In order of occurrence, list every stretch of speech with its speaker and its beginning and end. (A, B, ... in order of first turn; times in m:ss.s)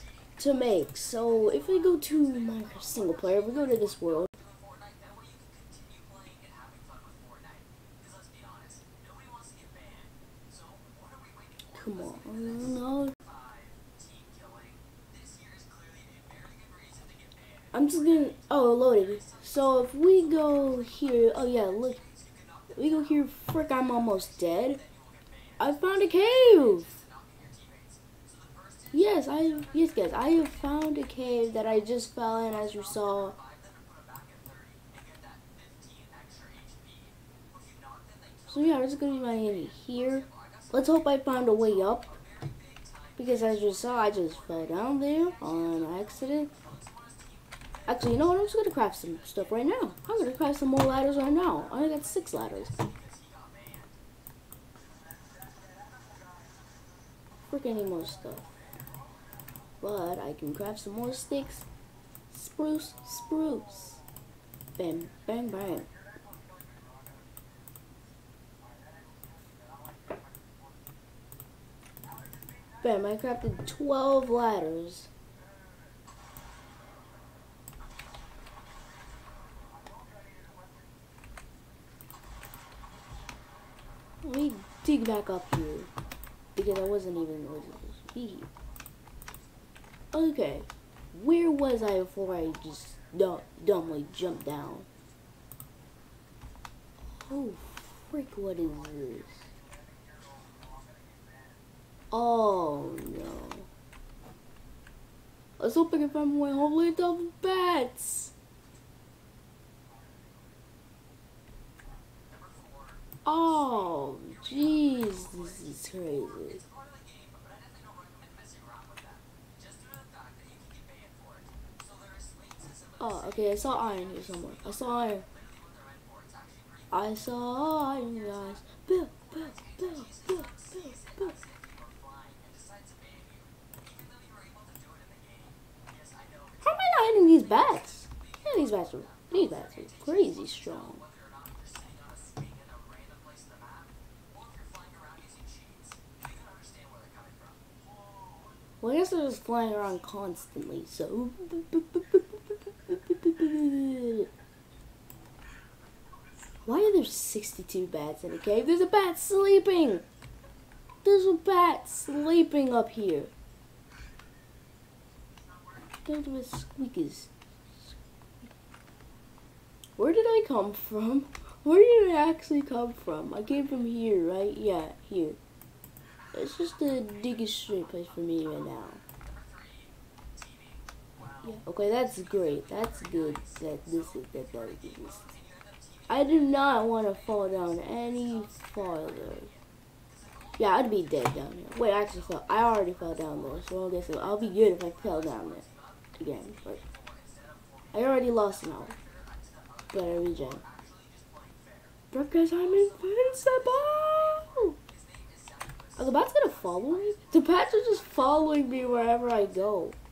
0:00.4-0:04.3 A
0:11.7-0:13.1 A
0:17.7-0:22.0 A
0:22.8-0:24.8 A
0:25.6-0:26.9 A
0:28.9-0:33.4 A
0:38.5-0:42.2 A
0:43.2-0:46.5 A
0:47.8-0:52.8 A
0:57.5-0:58.5 A
0:59.8-1:01.6 A
1:02.3-1:04.0 A
1:04.8-1:05.9 A
1:12.8-1:15.1 A
1:24.2-1:25.9 A
1:26.5-1:28.5 A
1:30.1-1:34.9 A
1:37.0-1:39.5 A
1:42.1-1:43.7 A
1:45.6-1:48.3 A
1:53.2-1:56.6 A
2:03.0-2:05.2 A
2:06.9-2:11.4 A
2:16.6-2:21.0 A
2:28.8-2:34.3 A
2:36.7-2:40.0 A
2:41.0-2:43.3 A
2:46.0-2:48.5 A
2:50.0-2:55.4 A
2:56.3-2:59.0 A
3:01.4-3:05.3 A
3:06.1-3:09.5 A
3:10.6-3:15.7 A
3:16.2-3:16.8 A
3:17.9-3:19.0 A
3:19.9-3:20.6 A
3:22.1-3:24.8 A
3:26.0-3:30.0 A